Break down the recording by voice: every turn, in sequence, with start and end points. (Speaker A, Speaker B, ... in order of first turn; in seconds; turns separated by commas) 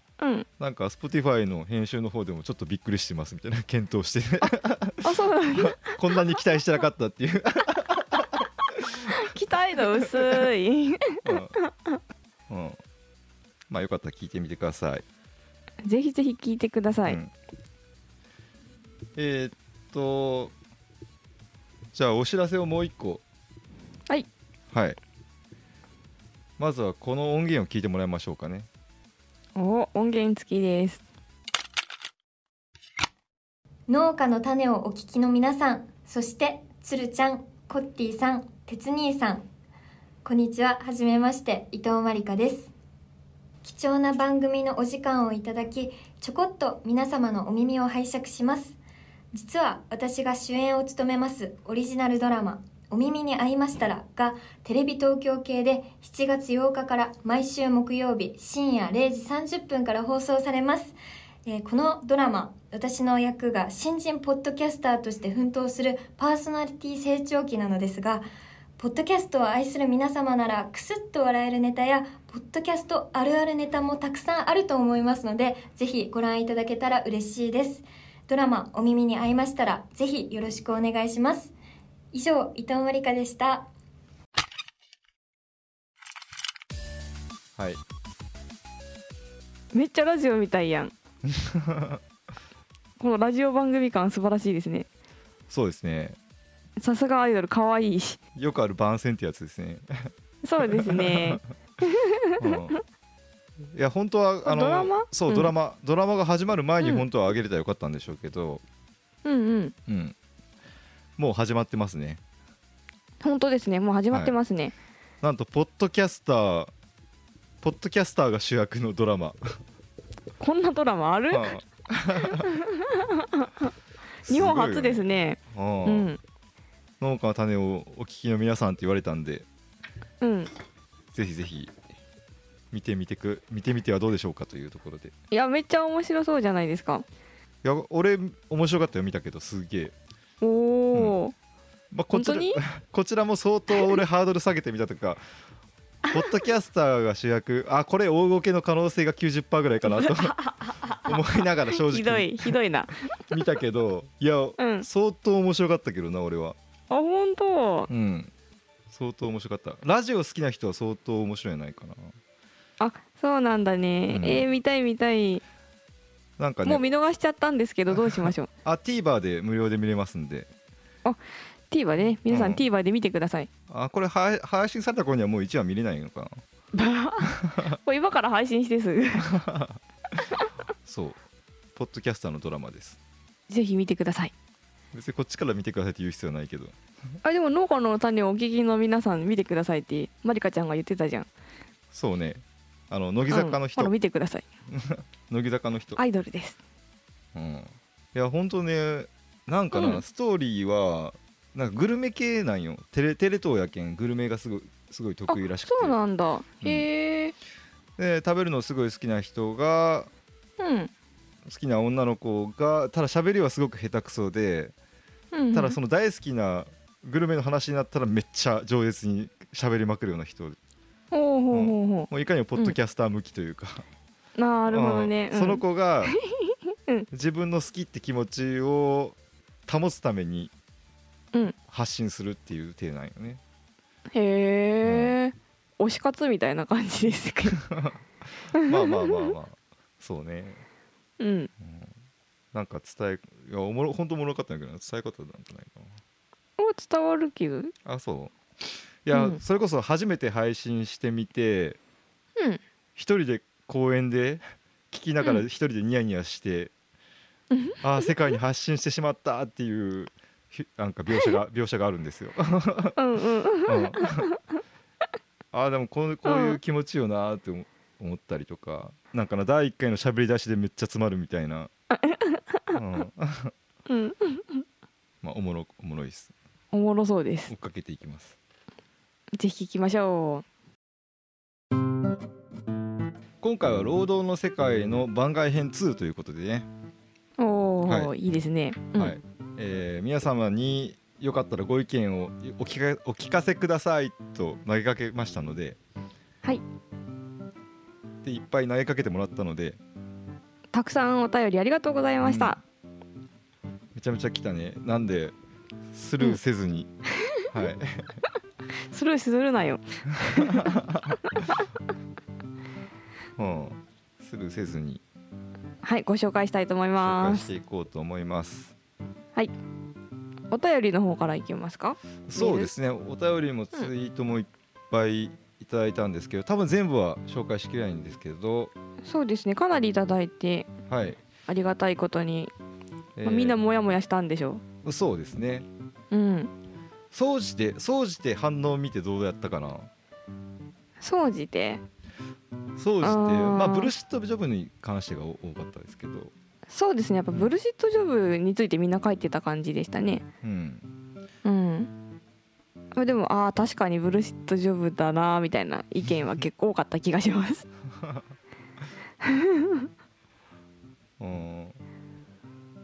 Speaker A: 0.2-0.5, Speaker B: 0.6-9.3, Speaker A: 5.0-6.0, Speaker A: 9.1-12.0, Speaker B: 10.0-10.5, Speaker B: 11.2-11.6, Speaker B: 12.5-12.8, Speaker B: 13.7-15.1, Speaker A: 15.8-17.2, Speaker B: 17.1-17.3, Speaker B: 19.1-20.5, Speaker B: 21.9-23.2, Speaker B: 24.7-25.0, Speaker B: 26.6-28.7, Speaker A: 29.6-31.0, Speaker C: 33.9-39.5, Speaker C: 40.2-42.7, Speaker C: 43.6-48.8, Speaker C: 49.3-68.3, Speaker C: 68.8-81.5, Speaker C: 82.1-83.7, Speaker B: 87.6-87.8, Speaker A: 89.7-90.9, Speaker B: 91.2-92.0, Speaker A: 93.0-94.9, Speaker B: 95.5-96.2, Speaker A: 96.8-98.2, Speaker B: 98.3-101.4, Speaker A: 100.4-102.8, Speaker B: 102.4-102.8, Speaker B: 103.7-108.6, Speaker A: 104.5-105.5, Speaker A: 109.2-109.8, Speaker B: 109.9-110.2, Speaker B: 111.2-112.2, Speaker A: 113.2-114.7, Speaker B: 115.2-116.7, Speaker B: 117.6-119.6, Speaker A: 120.4-121.5, Speaker B: 121.3-122.5, Speaker A: 122.3-123.7, Speaker B: 124.2-126.1, Speaker A: 124.3-126.2, Speaker B: 127.0-129.5, Speaker A: 130.2-130.5, Speaker B: 131.1-131.7, Speaker B: 132.7-135.1, Speaker A: 135.3-137.1, Speaker B: 137.6-139.9, Speaker A: 140.4-141.3, Speaker B: 141.9-145.2, Speaker A: 142.1-142.6, Speaker B: 146.1-150.4, Speaker A: 149.9-151.1, Speaker B: 150.9-152.6, Speaker A: 151.8-153.0, Speaker B: 153.3-156.6, Speaker A: 154.6-154.9, Speaker A: 156.9-157.9, Speaker B: 157.9-158.3, Speaker B: 158.9-162.2, Speaker A: 162.8-165.4, Speaker B: 164.1-164.4, Speaker B: 166.4-166.9, Speaker A: 166.7-168.5, Speaker B: 167.9-170.5, Speaker A: 171.7-173.5, Speaker B: 172.3-172.6, Speaker B: 173.7-176.4, Speaker A: 176.7-179.3, Speaker B: 177.4-177.7, Speaker B: 179.2-179.8, Speaker B: 180.8-181.2, Speaker B: 181.8-183.0, Speaker A: 183.5-184.3, Speaker B: 184.9-186.8, Speaker A: 187.2-191.3, Speaker B: 191.9-193.9, Speaker A: 193.3-194.4, Speaker B: 194.7-196.0, Speaker A: 196.0-196.6, Speaker B: 197.3-206.0, Speaker A: 199.7-200.0, Speaker A: 205.3-207.3, Speaker B: 206.6-206.9, Speaker B: 208.0-210.1, Speaker A: 210.6-210.9, Speaker B: 211.4-214.7, Speaker A: 215.3-215.8, Speaker B: 215.5-220.6, Speaker A: 221.1-222.8, Speaker B: 221.5-223.8, Speaker A: 224.4-227.1, Speaker B: 224.7-226.2, Speaker B: 227.1-230.5, Speaker B: 231.7-233.4, Speaker A: 234.1-237.6, Speaker B: 234.8-235.2, Speaker B: 237.6-238.0, Speaker B: 238.5-240.6, Speaker A: 238.6-239.3, Speaker A: 241.2-241.5, Speaker B: 241.6-241.9, Speaker B: 242.5-246.0, Speaker A: 246.6-247.7, Speaker B: 247.9-248.3, Speaker B: 249.1-251.8, Speaker A: 249.1-249.4, Speaker B: 253.0-256.7, Speaker A: 257.5-257.8, Speaker B: 257.8-263.0, Speaker A: 263.0-264.4, Speaker B: 263.7-264.3, Speaker B: 265.5-271.7, Speaker A: 266.2-266.6, Speaker A: 271.9-272.8, Speaker B: 272.7-273.5, Speaker A: 273.9-274.6, Speaker B: 275.2-276.3, Speaker A: 276.7-277.5, Speaker B: 277.5-278.4, Speaker A: 279.4-280.4, Speaker B: 283.4-286.7, Speaker A: 287.4-289.2, Speaker B: 287.9-288.1, Speaker B: 289.0-295.8, Speaker B: 298.2-299.8, Speaker A: 300.7-302.6, Speaker B: 302.2-302.6, Speaker B: 303.9-305.4, Speaker B: 305.9-306.9, Speaker B: 307.5-308.2, Speaker A: 308.9-310.7, Speaker B: 310.4-311.2, Speaker B: 313.4-315.0, Speaker A: 315.8-317.5, Speaker B: 317.0-318.7, Speaker A: 320.5-322.7, Speaker B: 322.3-328.7, Speaker A: 329.0-330.7, Speaker B: 330.9-331.2, Speaker A: 331.5-332.5, Speaker B: 333.2-333.6, Speaker A: 333.2-334.6, Speaker B: 334.8-335.7, Speaker A: 336.1-336.5, Speaker B: 337.1-339.9, Speaker A: 341.0-341.8, Speaker B: 342.8-346.3, Speaker A: 343.0-343.9, Speaker A: 346.7-350.2, Speaker B: 350.4-350.9, Speaker A: 351.4-351.9, Speaker A: 353.0-357.7, Speaker B: 357.9-358.2, Speaker A: 359.2-359.9, Speaker B: 361.2-361.8